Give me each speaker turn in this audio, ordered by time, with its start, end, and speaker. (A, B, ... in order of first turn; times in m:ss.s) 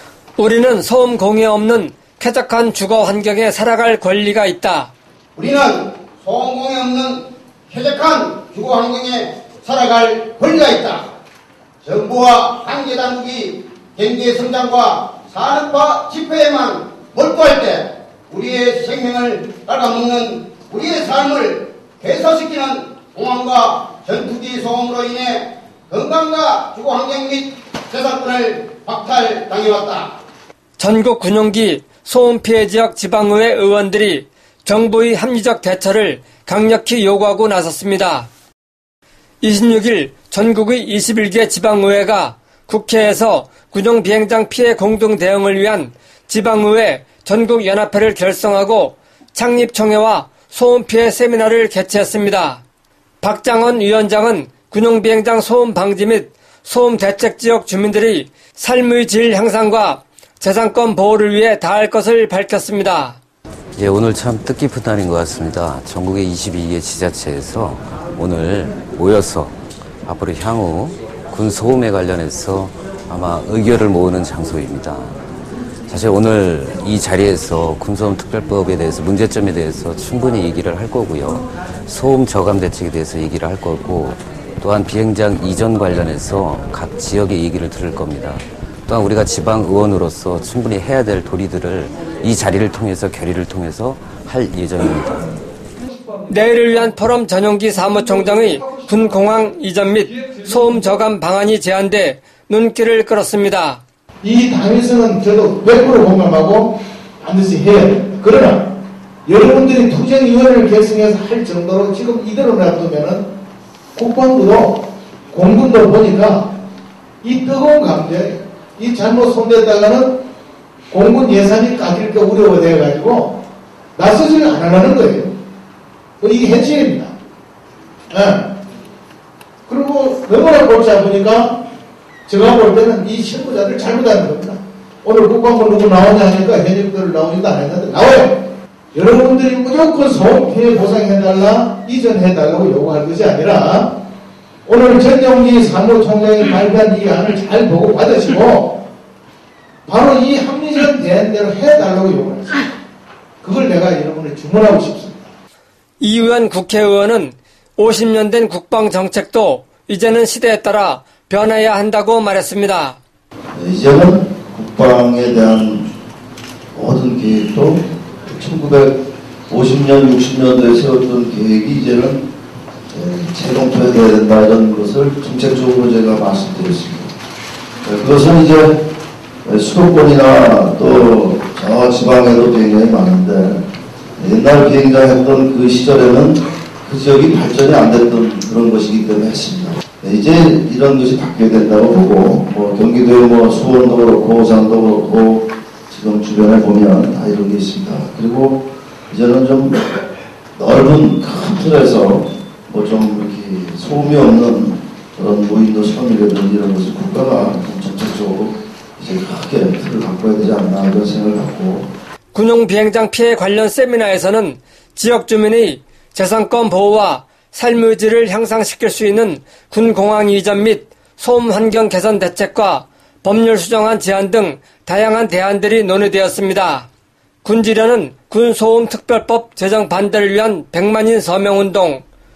0:00.4-0:04.9 A
0:05.4-0:11.1 B
0:11.8-0:30.2 B
0:30.8-0:38.3 A
0:39.4-0:52.6 A
0:53.2-1:03.2 A
1:03.8-1:15.2 C
1:15.9-1:35.4 C
1:36.3-1:43.8 A
1:44.2-1:48.7 D
1:49.3-1:53.3 D
1:54.0-1:56.5 D
1:57.2-2:00.2 D
2:00.9-2:03.4 D
2:04.0-2:05.4 D
2:06.2-2:07.1 D
2:08.1-2:08.5 D
2:09.7-2:11.6 D
2:12.3-2:24.0 D
2:24.7-2:28.8 D
2:29.9-2:32.7 D
2:33.4-2:35.3 D
2:36.0-2:43.0 A
2:43.6-2:45.9 E
2:46.8-2:52.3 E
2:52.9-2:57.1 E
2:57.8-2:58.9 E
2:59.4-3:19.9 E
3:20.6-3:31.9 E
3:32.3-3:46.9 A
3:47.4-3:52.0 A